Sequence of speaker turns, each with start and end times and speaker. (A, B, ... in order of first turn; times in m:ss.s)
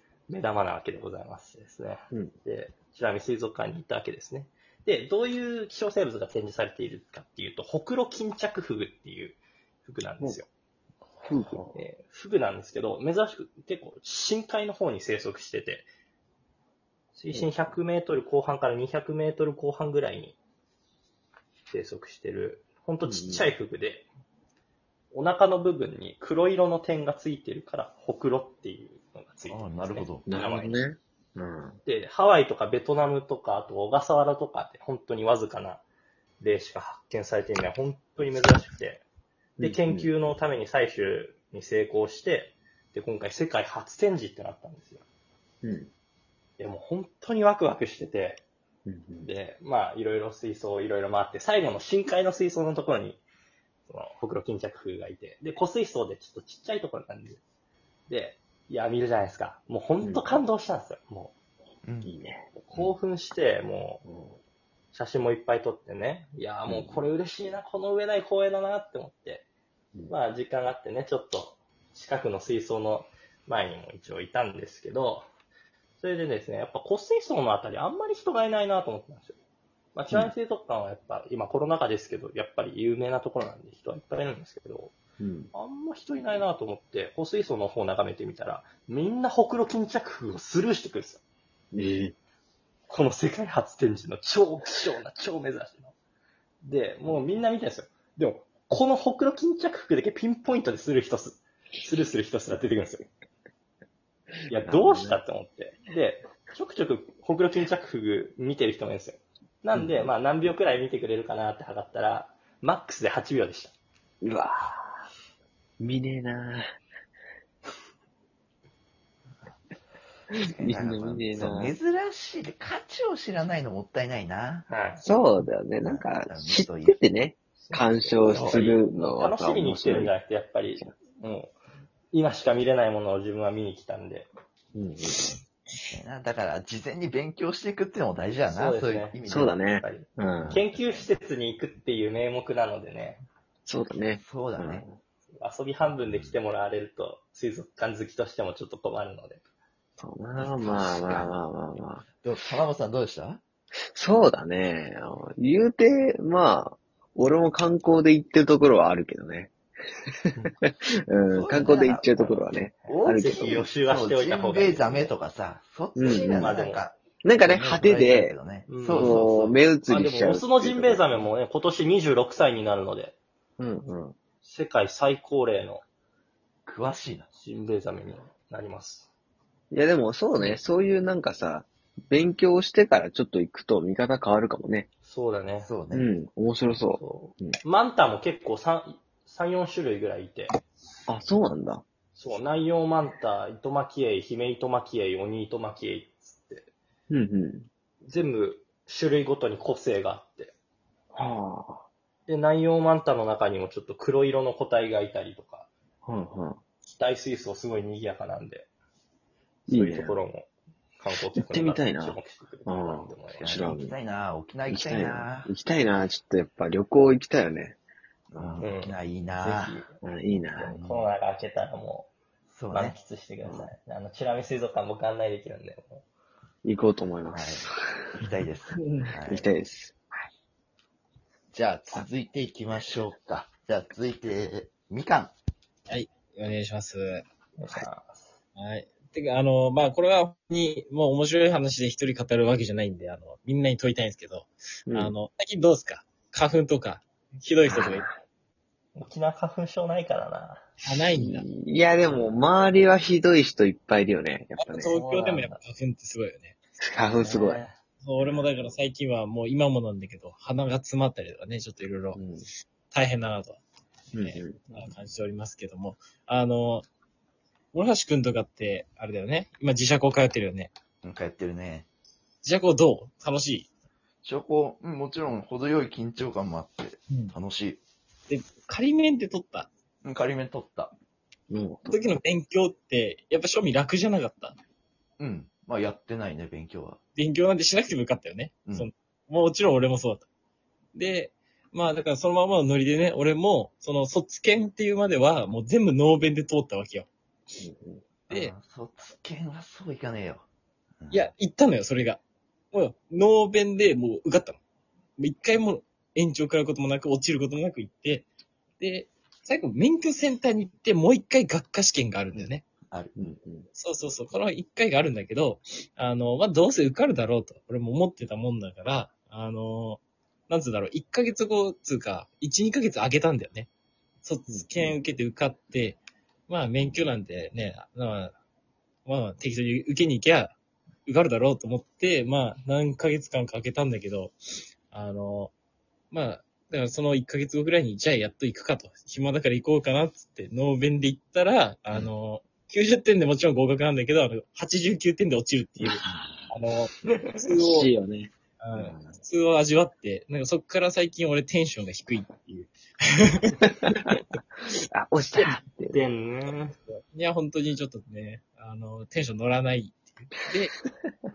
0:00.3-0:10.5 A
0:11.2-0:11.8 B
0:11.7-0:15.9 A
0:17.1-0:20.4 A
0:17.3-0:17.8 B
0:21.7-0:24.0 A
0:23.0-0:23.5 B
0:25.1-0:30.8 A
0:29.5-0:30.3 C
0:30.2-0:31.8 B
0:31.8-0:35.8 A
0:36.4-0:39.0 A
0:39.6-0:40.1 B
0:39.6-0:45.0 A
0:45.6-0:45.9 B
0:46.6-0:48.4 A
0:48.9-0:49.3 B
0:49.2-0:53.2 A
0:53.9-0:57.4 A
0:58.1-1:01.3 A
1:00.0-1:00.4 B
1:01.8-1:02.1 C
1:02.0-1:02.9 B
1:02.6-1:04.0 A
1:04.0-1:04.4 B
1:04.9-1:09.4 A
1:06.7-1:07.0 B
1:10.1-1:15.2 A
1:16.0-1:19.4 A
1:19.9-1:25.0 A
1:25.2-1:25.5 B
1:25.5-1:31.2 A
1:31.7-1:32.1 B
1:32.9-1:35.9 A
1:36.6-1:43.1 A
1:44.5-1:53.7 A
1:44.5-1:45.2 B
1:49.7-1:50.1 B
1:54.2-1:55.0 B
1:55.8-1:56.6 B
2:00.3-2:01.7 B
2:00.4-2:04.7 C
2:04.7-2:05.0 A
2:05.0-2:10.1 B
2:05.8-2:07.0 C
2:07.6-2:11.5 A
2:08.3-2:08.6 C
2:12.1-2:14.3 A
2:14.7-2:15.3 B
2:15.9-2:19.5 C
2:18.5-2:23.2 A
2:19.3-2:20.6 B
2:20.4-2:20.7 C
2:23.6-2:25.0 B
2:24.2-2:24.8 C
2:25.4-2:29.4 A
2:26.0-2:26.3 C
2:30.0-2:32.0 B
2:30.4-2:31.3 C
2:32.2-2:33.4 C
2:33.9-2:39.5 B
2:40.1-2:43.6 B
2:41.3-2:42.4 C
2:42.2-2:45.1 A
2:42.9-2:49.6 C
2:45.9-2:46.6 B
2:46.0-2:46.8 A
2:47.2-2:51.3 B
2:48.7-2:49.2 A
2:49.8-2:53.2 A
2:53.6-2:54.1 B
2:54.4-2:55.8 A
2:56.6-2:57.3 C
2:57.3-2:59.1 A
2:59.7-3:04.9 B
3:05.0-3:05.7 A
3:05.6-3:06.1 C
3:05.9-3:07.6 B
3:06.9-3:10.5 A
3:11.1-3:11.8 B
3:12.1-3:16.7 A
3:17.1-3:17.7 B
3:18.0-3:20.5 A
3:21.1-3:21.8 B
3:22.2-3:25.7 A
3:26.0-3:26.6 B
3:26.9-3:28.7 A
3:29.7-3:30.5 A
3:29.7-3:30.2 B
3:31.0-3:33.7 A
3:31.3-3:34.0 B
3:33.4-3:35.5 C
3:34.7-3:37.8 B
3:38.3-3:39.8 C
3:38.3-3:38.7 B
3:38.6-3:39.9 A
3:40.0-3:40.8 B
3:40.6-3:42.1 A
3:40.6-3:41.1 C
3:42.5-3:43.0 C
3:42.7-3:46.0 A
3:43.4-3:43.7 B
3:46.6-3:48.2 B
3:47.3-3:47.7 C
3:48.2-3:49.5 C
3:48.8-3:49.1 D
3:49.3-3:49.9 B
3:51.5-3:55.3 C
3:55.9-3:57.2 D
3:57.6-3:58.3 A
3:58.6-4:08.1 D
4:07.7-4:08.1 B
4:09.0-4:10.7 A
4:10.8-4:11.5 D
4:11.1-4:14.9 B
4:14.6-4:16.6 D
4:14.9-4:15.6 A
4:16.8-4:17.6 B
4:17.1-4:17.8 A
4:18.0-4:22.2 D
4:22.2-4:22.5 B
4:22.9-4:23.6 D
4:24.1-4:24.7 B
4:24.1-4:26.8 D
4:27.7-4:30.7 D
4:31.0-4:31.9 C
4:32.4-4:33.7 D
4:34.2-4:37.8 C
4:38.3-4:39.7 D
4:40.0-4:40.9 C
4:41.5-4:42.0 B
4:41.9-4:44.6 D
4:45.2-4:47.0 C
4:47.2-4:50.3 D
4:50.9-4:57.1 D
4:57.6-4:58.2 B
4:58.3-5:00.4 C
5:01.0-5:01.3 C
5:01.1-5:02.2 D
5:02.7-5:04.6 D
5:05.2-5:08.3 D
5:08.8-5:12.6 D
5:12.9-5:13.3 C
5:13.2-5:13.7 B
5:13.7-5:23.7 D
5:24.2-5:28.3 D
5:24.5-5:25.0 B
5:29.0-5:34.3 D
5:34.9-5:35.5 D
5:36.1-5:47.9 D
5:45.8-5:46.5 B
5:47.0-5:47.4 A
5:47.5-5:49.2 B
5:48.6-5:52.7 D
5:53.4-5:53.9 D
5:53.7-5:54.2 B
5:54.9-5:56.1 B
5:55.4-5:56.7 A
5:56.8-6:00.7 D